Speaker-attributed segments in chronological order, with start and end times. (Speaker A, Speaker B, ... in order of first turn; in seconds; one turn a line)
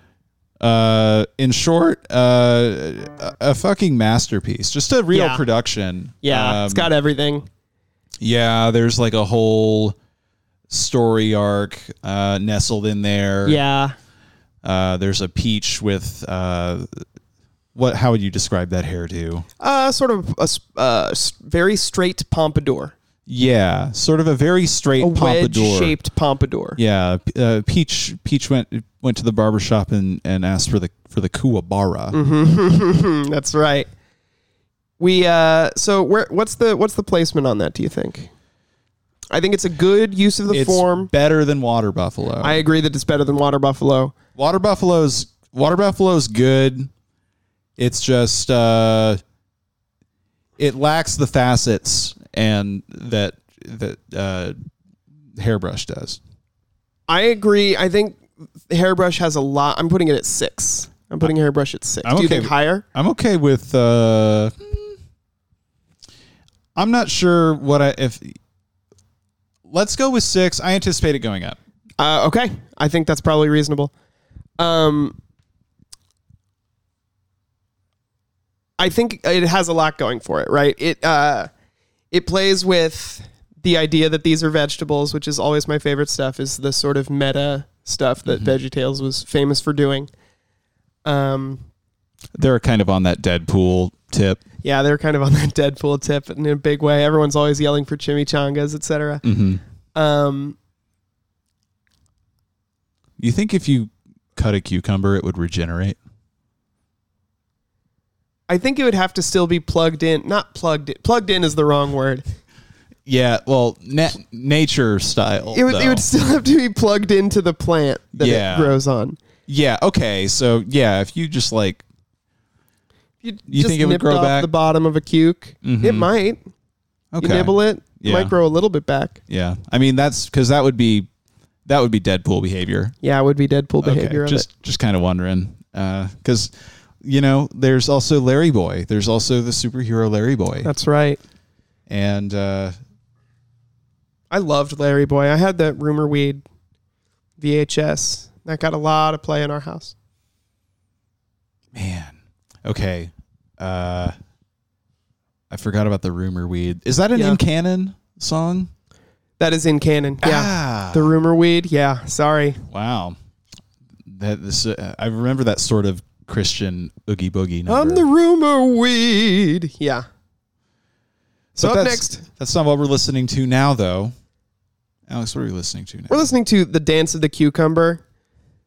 Speaker A: 0.6-6.9
Speaker B: 5.1-5.4
Speaker B: 6.2-7.5
Speaker A: 8.2-10.0
Speaker A: 10.7-13.6
Speaker B: 13.4-13.9
Speaker A: 14.6-17.0
Speaker A: 17.7-19.4
Speaker B: 19.6-22.9
Speaker A: 23.3-26.0
Speaker B: 25.0-26.8
Speaker A: 26.8-32.2
Speaker B: 32.1-33.9
Speaker B: 35.0-38.3
Speaker B: 39.3-41.1
Speaker A: 40.5-42.6
Speaker B: 42.4-44.1
Speaker A: 44.4-46.9
Speaker A: 47.8-49.2
Speaker A: 50.6-54.5
Speaker A: 55.4-56.2
Speaker B: 57.1-62.8
Speaker A: 62.0-65.0
Speaker A: 66.8-68.4
Speaker A: 69.7-71.6
Speaker B: 72.0-73.9
Speaker B: 74.6-75.2
Speaker B: 78.8-81.5
Speaker B: 82.1-90.1
Speaker A: 88.3-88.5
Speaker B: 91.0-91.6
Speaker A: 92.3-94.4
Speaker B: 94.6-99.2
Speaker A: 99.2-99.6
Speaker B: 99.9-100.5
Speaker A: 103.2-106.0
Speaker B: 108.5-112.2
Speaker A: 113.0-116.0
Speaker B: 115.5-119.2
Speaker A: 118.1-118.8
Speaker A: 119.5-121.8
Speaker B: 123.2-126.4
Speaker A: 123.5-124.5
Speaker A: 125.6-126.1
Speaker A: 127.1-128.3
Speaker B: 127.2-129.2
Speaker A: 129.3-131.1
Speaker A: 131.7-132.9
Speaker B: 133.0-134.5
Speaker A: 133.8-140.7
Speaker B: 140.6-141.2
Speaker A: 141.9-142.8
Speaker B: 144.3-146.4
Speaker B: 147.4-149.9
Speaker A: 151.7-154.1
Speaker A: 155.5-158.7
Speaker B: 157.1-157.4
Speaker B: 159.4-162.6
Speaker A: 160.2-161.1
Speaker A: 162.7-163.2
Speaker A: 164.1-168.1
Speaker B: 167.7-170.1
Speaker A: 171.6-174.1
Speaker B: 171.6-172.2
Speaker A: 175.1-176.3
Speaker B: 176.1-178.0